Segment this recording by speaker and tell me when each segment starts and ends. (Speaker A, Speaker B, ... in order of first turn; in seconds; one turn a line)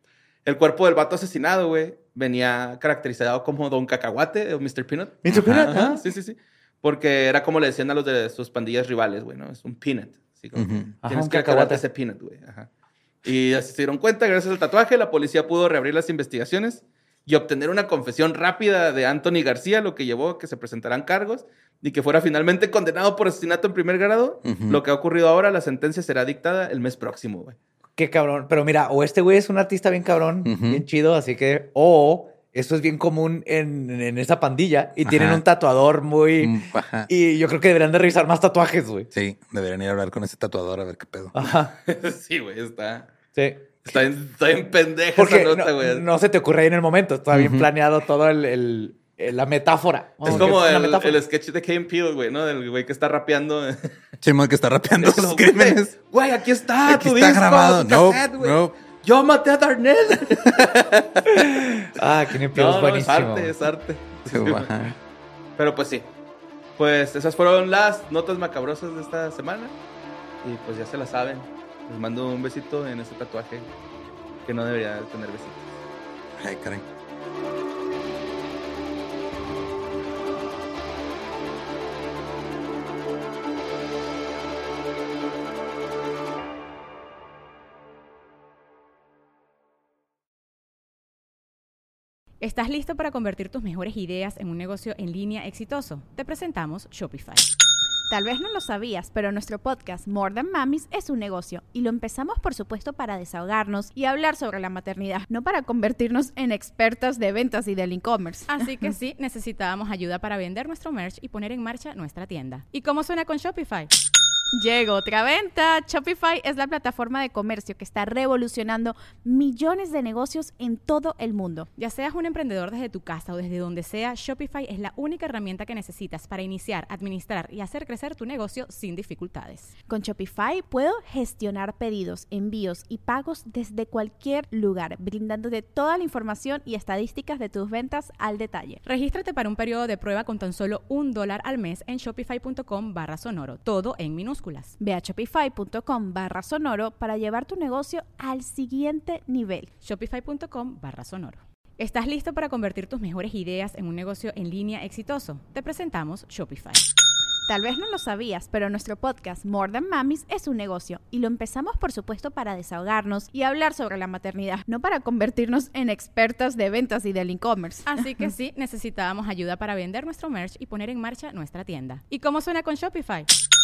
Speaker A: 0.5-12.7
Speaker B: 5.2-6.0
Speaker C: 5.3-5.7
Speaker C: 10.6-10.9
Speaker B: 11.0-11.8
Speaker A: 13.2-27.6
Speaker C: 24.4-24.8
Speaker B: 28.0-39.1
Speaker C: 30.4-30.8
Speaker C: 35.0-35.4
Speaker C: 36.4-37.1
Speaker C: 39.1-41.3
Speaker B: 41.3-41.7
Speaker A: 41.9-43.1
Speaker B: 43.4-44.0
Speaker A: 43.8-46.0
Speaker B: 45.1-51.2
Speaker C: 47.3-47.7
Speaker C: 50.3-50.5
Speaker A: 50.3-54.0
Speaker C: 54.2-55.9
Speaker A: 55.0-61.0
Speaker C: 56.9-58.8
Speaker C: 60.5-61.0
Speaker B: 61.5-63.5
Speaker A: 62.5-65.0
Speaker C: 64.3-65.0
Speaker A: 65.6-66.1
Speaker A: 66.8-69.7
Speaker A: 70.4-73.7
Speaker A: 74.5-75.8
Speaker C: 76.4-76.8
Speaker D: 92.4-97.5
Speaker E: 98.1-108.9
Speaker D: 108.5-113.9
Speaker E: 114.5-121.7
Speaker D: 121.8-129.7
Speaker E: 129.9-138.8
Speaker D: 138.8-144.8
Speaker E: 144.8-149.7
Speaker D: 149.8-156.8
Speaker E: 157.5-168.2
Speaker D: 167.9-173.3